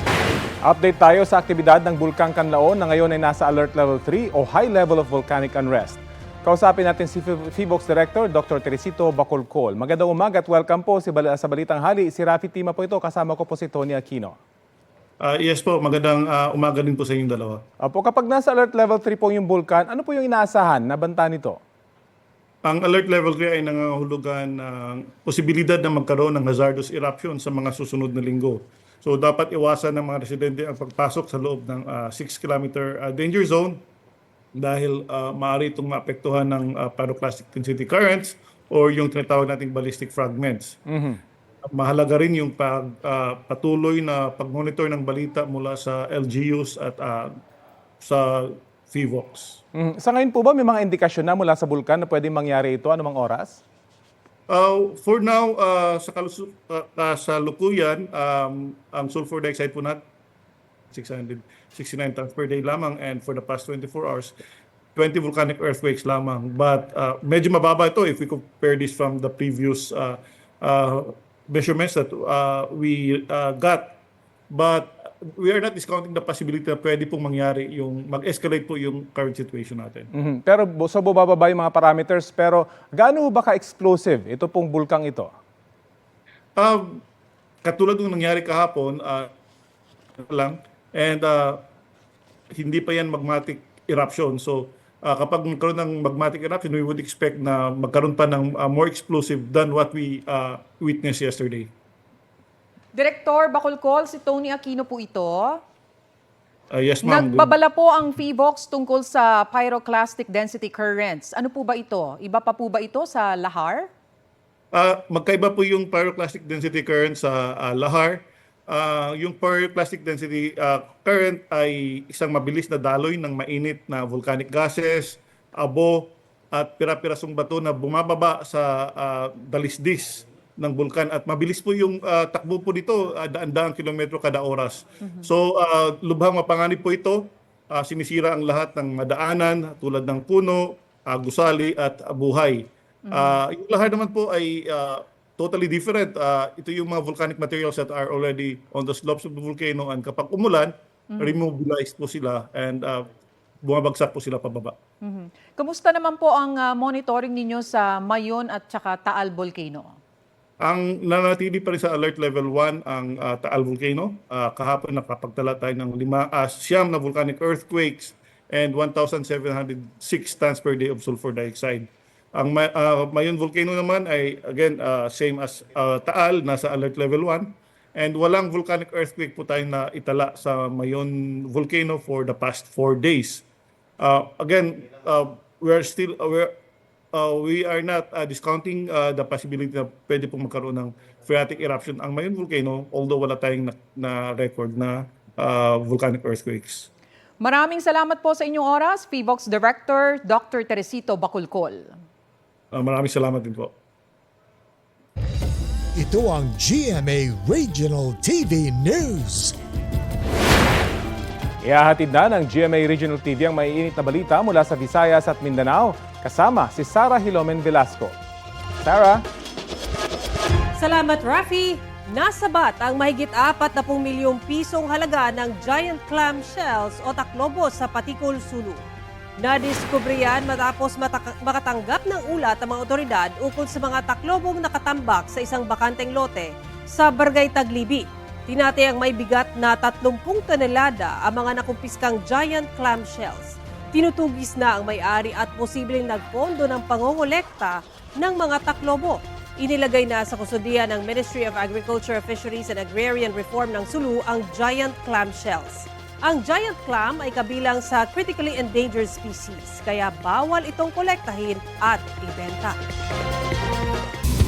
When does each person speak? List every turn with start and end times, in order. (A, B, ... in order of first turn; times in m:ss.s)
0:00.6-0:14.4 A
0:15.2-0:17.6 B
0:17.8-0:21.6 A
0:22.6-0:33.8 B
0:34.6-0:40.8 B
0:40.9-0:41.2 A
0:41.6-0:47.3 B
0:48.0-0:49.6 B
0:49.8-0:53.6 A
0:54.5-1:00.0 B
1:00.9-1:04.3 B
1:05.0-1:14.0 B
1:14.5-1:20.1 B
1:20.1-1:25.3 A
1:26.6-1:27.0 B
1:27.6-1:29.3 B
1:30.2-1:31.6 B
1:32.5-1:41.7 B
1:43.0-1:45.6 C
1:46.7-1:47.6 B
1:47.0-1:53.9 C
1:54.7-2:33.1 B
2:23.1-2:23.4 C
2:33.6-2:34.8 B
2:35.0-2:40.0 C
2:40.6-3:03.4 B
3:04.0-3:06.5 B
3:07.1-3:16.9 B
3:17.4-3:22.0 C
3:22.7-3:23.7 B
3:26.0-3:29.6 D
3:31.6-3:38.1 A
3:38.8-3:39.2 A
3:40.8-3:48.8 E
3:49.4-4:22.8 E